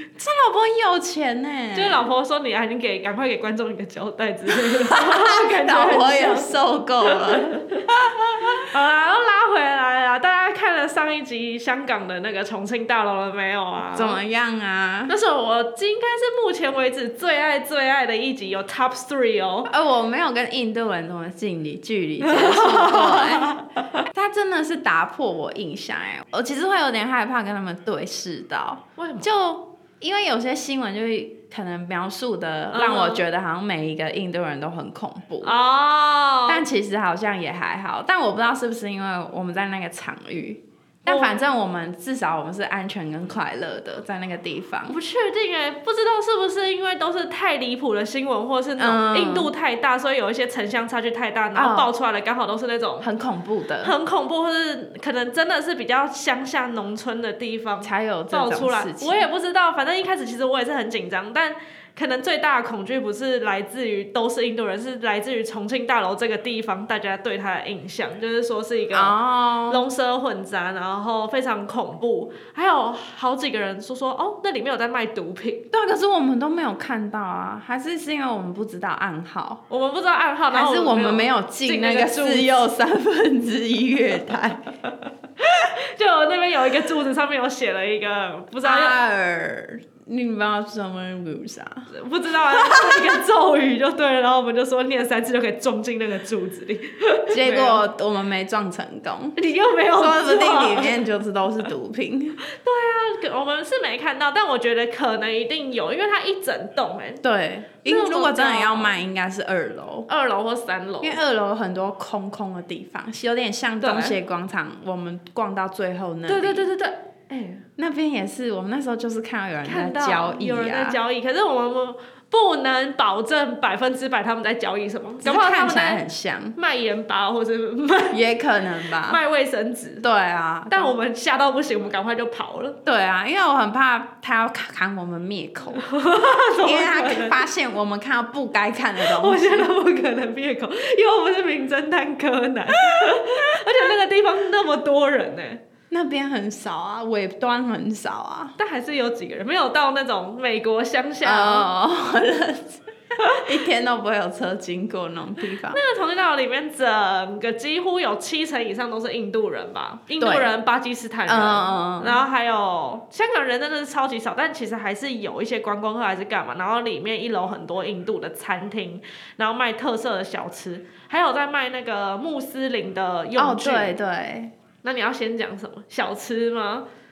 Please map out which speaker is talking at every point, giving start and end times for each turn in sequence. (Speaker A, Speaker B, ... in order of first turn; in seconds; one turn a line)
Speaker A: 0.2-2.1
Speaker B: 1.7-6.5
Speaker A: 4.5-8.7
Speaker B: 7.1-7.8
Speaker B: 8.4-14.2
Speaker A: 13.9-15.1
Speaker B: 15.1-19.7
Speaker A: 19.7-35.6
Speaker B: 22.2-24.0
Speaker B: 29.0-29.3
Speaker B: 32.7-33.2
Speaker B: 35.4-36.6
Speaker A: 36.5-45.0
Speaker B: 41.1-41.4
Speaker B: 44.9-53.1
Speaker A: 48.8-49.5
Speaker A: 51.5-51.9
Speaker A: 53.0-54.0
Speaker B: 53.8-75.7
Speaker A: 57.8-59.3
Speaker A: 68.9-69.8
Speaker A: 75.7-79.6
Speaker B: 79.7-82.5
Speaker A: 80.5-84.7
Speaker B: 84.8-89.0
Speaker A: 88.6-91.9
Speaker B: 91.9-97.8
Speaker A: 92.5-93.2
Speaker A: 97.3-99.4
Speaker B: 99.4-101.0
Speaker A: 99.9-102.4
Speaker B: 102.5-107.2
Speaker A: 107.2-110.1
Speaker B: 107.8-109.0
Speaker B: 110.1-111.2
Speaker A: 111.0-116.7
Speaker B: 113.8-114.2
Speaker B: 116.3-117.7
Speaker A: 117.8-121.0
Speaker B: 119.7-126.0
Speaker A: 125.2-126.6
Speaker B: 126.6-128.2
Speaker A: 128.1-129.2
Speaker B: 129.0-130.0
Speaker A: 130.0-131.0
Speaker B: 130.7-132.8
Speaker A: 132.8-135.9
Speaker B: 135.8-137.4
Speaker A: 136.6-139.7
Speaker B: 139.0-145.6
Speaker A: 142.8-143.4
Speaker A: 145.9-148.6
Speaker B: 148.6-151.7
Speaker A: 151.2-155.8
Speaker B: 155.7-173.9
Speaker A: 160.2-160.5
Speaker A: 161.3-162.2
Speaker A: 173.4-174.5
Speaker B: 174.8-176.9